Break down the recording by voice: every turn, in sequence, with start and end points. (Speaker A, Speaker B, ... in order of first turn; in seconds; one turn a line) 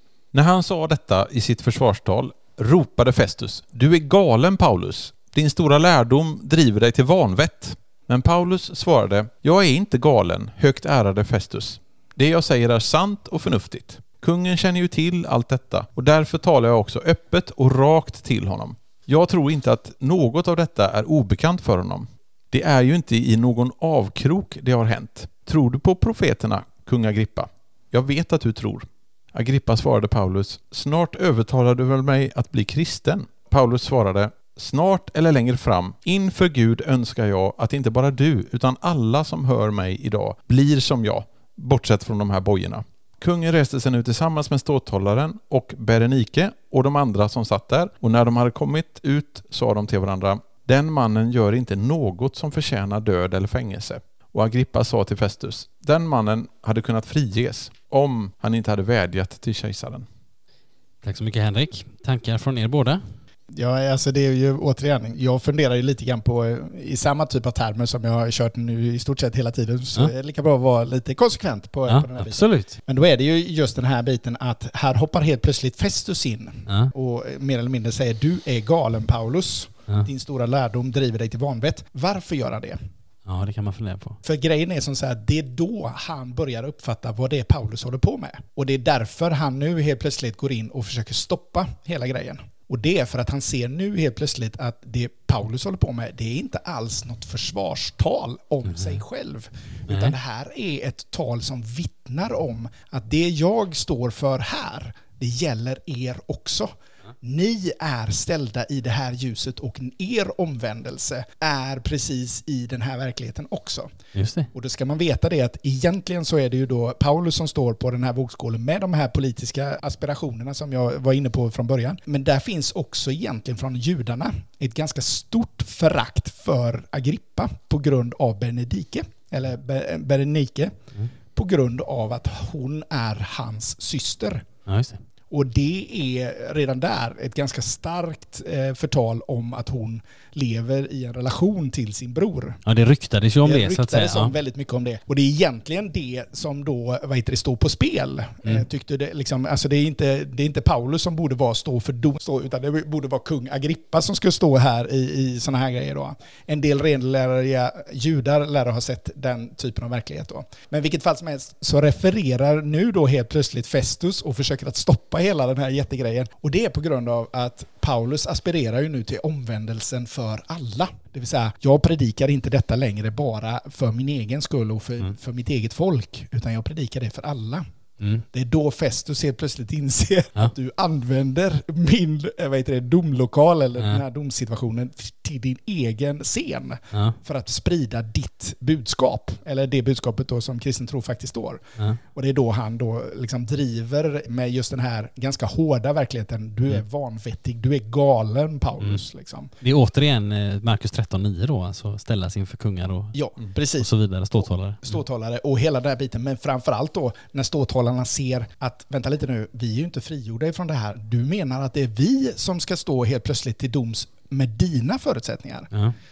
Speaker A: 0.3-60.1
Speaker B: 61.0-63.0
Speaker C: 63.5-82.8
Speaker B: 71.9-72.8
Speaker B: 76.7-76.9
Speaker B: 83.3-84.2
Speaker C: 84.2-106.7
Speaker B: 98.7-99.0
Speaker B: 99.9-100.2
Speaker C: 107.2-113.9
Speaker B: 114.1-114.5
Speaker C: 114.5-130.8
Speaker C: 131.3-134.5
Speaker B: 134.7-135.0
Speaker C: 135.3-142.6
Speaker B: 142.7-144.3
Speaker C: 143.4-177.7
Speaker B: 178.0-178.2
Speaker C: 178.3-199.5
Speaker B: 183.8-184.0
Speaker B: 199.6-203.2
Speaker C: 203.1-203.9
Speaker B: 203.7-204.9
Speaker C: 204.4-215.7